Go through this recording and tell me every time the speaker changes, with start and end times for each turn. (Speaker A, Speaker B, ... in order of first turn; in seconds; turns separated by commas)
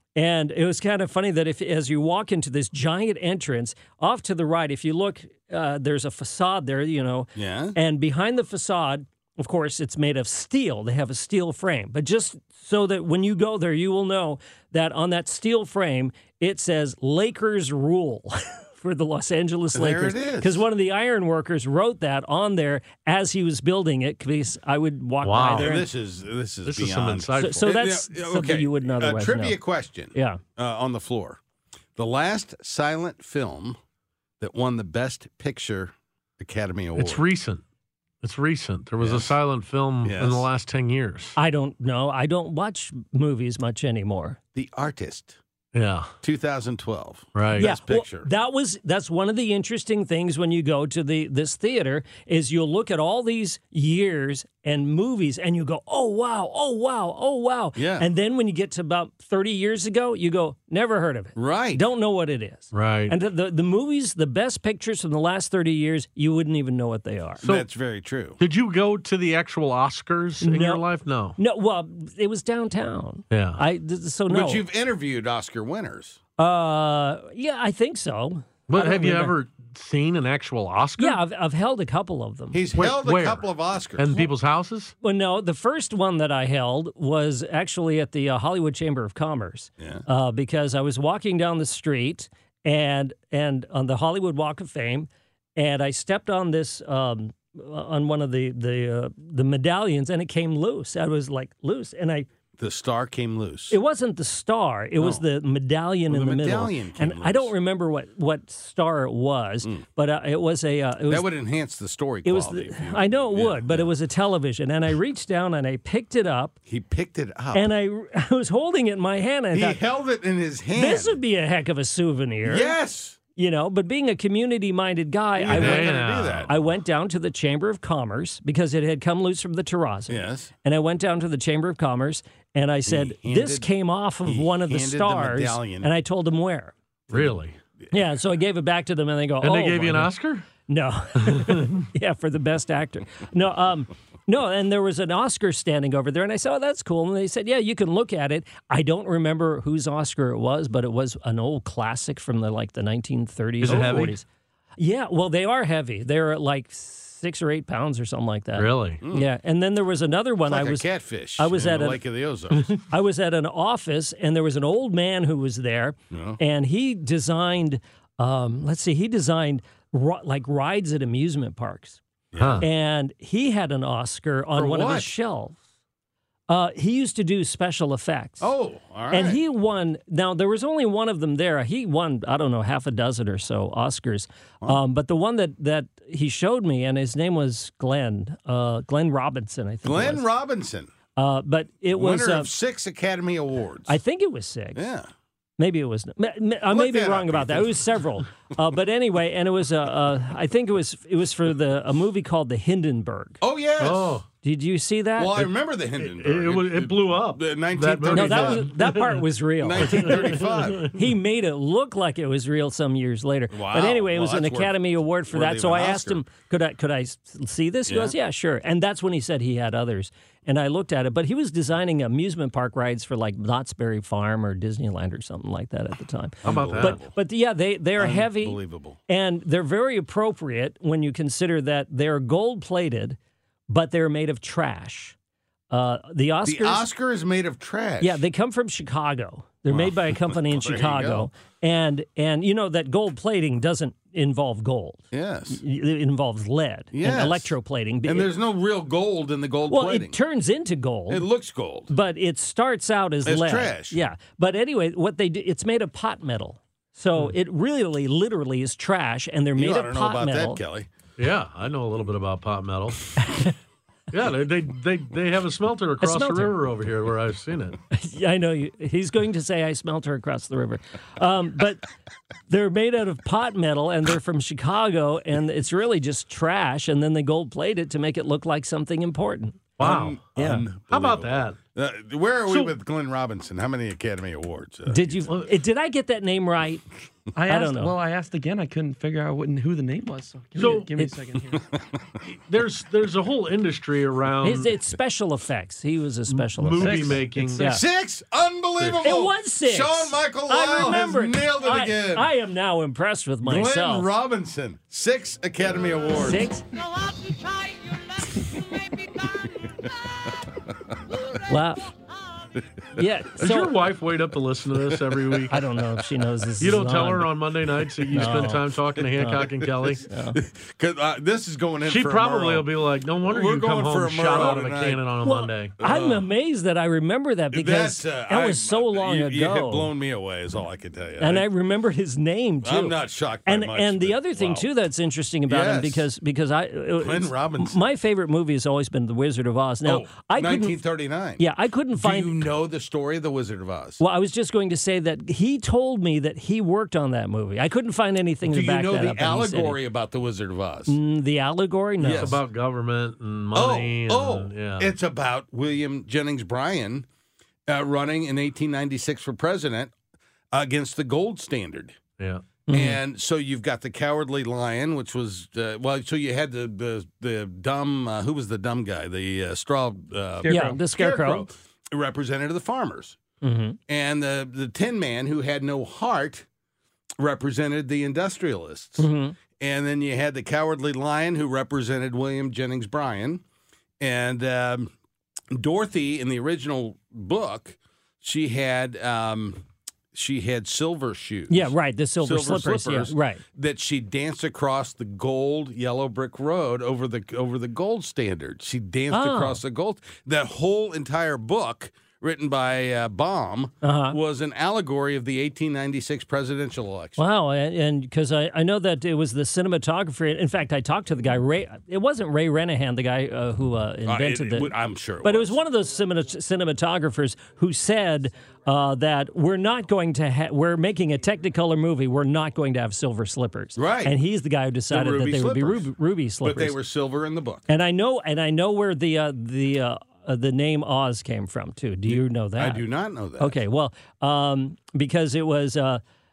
Speaker A: 0.1-25.9, Speaker B: 7.3-7.8, Speaker B: 19.7-20.6, Speaker C: 25.2-25.7, Speaker B: 25.5-31.4, Speaker C: 26.6-27.7, Speaker A: 27.4-29.6, Speaker A: 30.1-30.4, Speaker B: 31.9-33.8, Speaker B: 34.4-37.2, Speaker C: 37.0-37.6, Speaker C: 38.2-41.4, Speaker B: 39.0-39.3, Speaker B: 40.0-40.5, Speaker A: 41.4-44.4, Speaker B: 44.5-45.4, Speaker C: 45.7-46.1, Speaker B: 46.2-48.3, Speaker C: 47.4-47.7, Speaker A: 47.6-67.4, Speaker B: 57.8-58.1, Speaker B: 61.4-61.8, Speaker C: 62.7-63.1, Speaker B: 67.4-68.4, Speaker C: 68.4-71.4, Speaker A: 70.4-70.8, Speaker A: 71.4-74.7, Speaker C: 73.3-73.6, Speaker B: 74.3-76.2, Speaker A: 76.4-79.3, Speaker C: 78.7-81.2, Speaker A: 81.0-82.6, Speaker B: 82.5-84.3, Speaker C: 82.8-83.4, Speaker C: 84.0-84.9, Speaker A: 85.0-102.3, Speaker B: 89.8-90.0, Speaker B: 102.6-103.8, Speaker A: 103.7-111.3, Speaker B: 105.0-105.2, Speaker B: 106.1-107.5, Speaker B: 111.1-113.9, Speaker A: 112.2-116.5, Speaker B: 116.7-117.7, Speaker A: 117.5-119.8, Speaker B: 119.5-121.2, Speaker A: 120.7-122.7, Speaker B: 122.4-123.2, Speaker A: 123.3-136.7, Speaker B: 125.3-126.5, Speaker C: 125.5-126.5, Speaker B: 130.1-130.5, Speaker B: 132.9-133.7, Speaker B: 134.2-135.9, Speaker B: 137.1-137.4, Speaker C: 137.1-137.6, Speaker A: 137.9-140.1, Speaker C: 139.4-140.5, Speaker A: 140.7-154.2, Speaker C: 141.2-141.8, Speaker C: 153.6-154.2, Speaker B: 153.7-154.1, Speaker A: 154.8-160.8, Speaker C: 158.6-159.0, Speaker B: 159.0-159.3, Speaker B: 160.4-162.7, Speaker A: 161.4-162.0, Speaker A: 162.6-172.0, Speaker B: 166.1-166.4, Speaker B: 172.3-172.7, Speaker C: 172.4-172.7, Speaker A: 172.6-175.6, Speaker B: 174.6-175.1, Speaker A: 176.5-178.5, Speaker B: 178.4-179.4, Speaker A: 179.1-190.2, Speaker B: 189.8-190.9, Speaker A: 191.2-192.5, Speaker B: 191.9-194.0, Speaker A: 193.9-194.8, Speaker B: 194.7-195.1, Speaker A: 195.6-203.4, Speaker B: 196.7-197.9, Speaker B: 203.4-204.2, Speaker C: 203.8-204.2, Speaker A: 204.4-205.3, Speaker B: 205.2-208.9, Speaker C: 206.0-209.2, Speaker A: 208.1-233.2, Speaker B: 209.6-211.0, Speaker C: 209.8-210.9, Speaker B: 213.5-216.2, Speaker B: 217.9-218.1, Speaker B: 226.4-227.1, Speaker C: 226.4-227.0, Speaker B: 228.0-229.0, Speaker A: 233.7-235.1, Speaker A: 235.7-236.9, Speaker B: 236.4-238.2, Speaker A: 238.0-248.3, Speaker B: 239.7-241.3, Speaker B: 245.1-245.6, Speaker B: 246.9-247.5, Speaker B: 248.0-250.2, Speaker A: 249.7-251.2, Speaker B: 251.1-251.9, Speaker A: 251.9-260.6, Speaker B: 253.2-254.0, Speaker B: 259.6-260.9, Speaker C: 261.2-263.2, Speaker A: 263.2-263.5, Speaker C: 264.1-267.8, Speaker A: 266.0-266.5, Speaker A: 267.9-271.9, Speaker A: 272.5-279.8, Speaker C: 279.8-280.2, Speaker B: 279.8-285.3, Speaker A: 280.3-280.6, Speaker C: 280.9-281.6, Speaker A: 284.9-286.9, Speaker D: 287.4-291.8, Speaker A: 287.4-287.9, Speaker C: 290.6-290.9, Speaker A: 290.6-291.2, Speaker C: 292.5-294.7, Speaker A: 294.4-297.8, Speaker C: 296.3-297.7, Speaker D: 296.8-297.8, Speaker B: 297.6-302.3, Speaker C: 298.8-299.0, Speaker A: 299.0-304.1, Speaker B: 303.4-306.5, Speaker A: 306.1-306.6, Speaker B: 309.2-311.4, Speaker A: 311.4-311.9, Speaker A: 312.9-313.7, Speaker C: 313.4-315.5, Speaker B: 314.8-316.2, Speaker A: 315.5-317.3, Speaker C: 316.6-320.1, Speaker B: 317.8-318.7, Speaker A: 318.1-319.4, Speaker B: 319.3-322.7, Speaker A: 320.0-320.4, Speaker C: 321.8-325.8, Speaker B: 323.3-325.0, Speaker A: 325.2-329.9, Speaker B: 325.8-326.2, Speaker B: 327.5-331.4, Speaker A: 331.2-340.8, Speaker B: 332.6-334.7, Speaker B: 335.5-336.1, Speaker B: 337.0-337.8, Speaker B: 339.8-341.4, Speaker A: 341.4-342.5, Speaker B: 342.0-344.0, Speaker A: 344.0-349.8, Speaker B: 348.4-350.9, Speaker A: 350.9-352.4, Speaker B: 352.0-352.4, Speaker C: 352.1-354.9, Speaker B: 353.5-357.1, Speaker B: 357.7-359.9, Speaker B: 360.5-362.0, Speaker C: 362.2-362.4, Speaker A: 362.7-363.0, Speaker B: 362.7-373.2, Speaker A: 370.4-371.5, Speaker D: 370.4-370.8, Speaker A: 373.4-373.8, Speaker B: 373.9-376.5, Speaker B: 377.2-383.4, Speaker A: 379.0-379.4, Speaker B: 384.0-384.9, Speaker B: 385.5-407.2, Speaker A: 391.5-393.4, Speaker A: 399.1-399.6, Speaker A: 403.8-404.2, Speaker A: 407.2-426.8, Speaker B: 414.0-415.6, Speaker B: 423.8-424.2, Speaker B: 424.9-425.9, Speaker B: 426.4-427.6, Speaker A: 427.7-432.8, Speaker B: 432.1-433.6, Speaker A: 433.4-436.0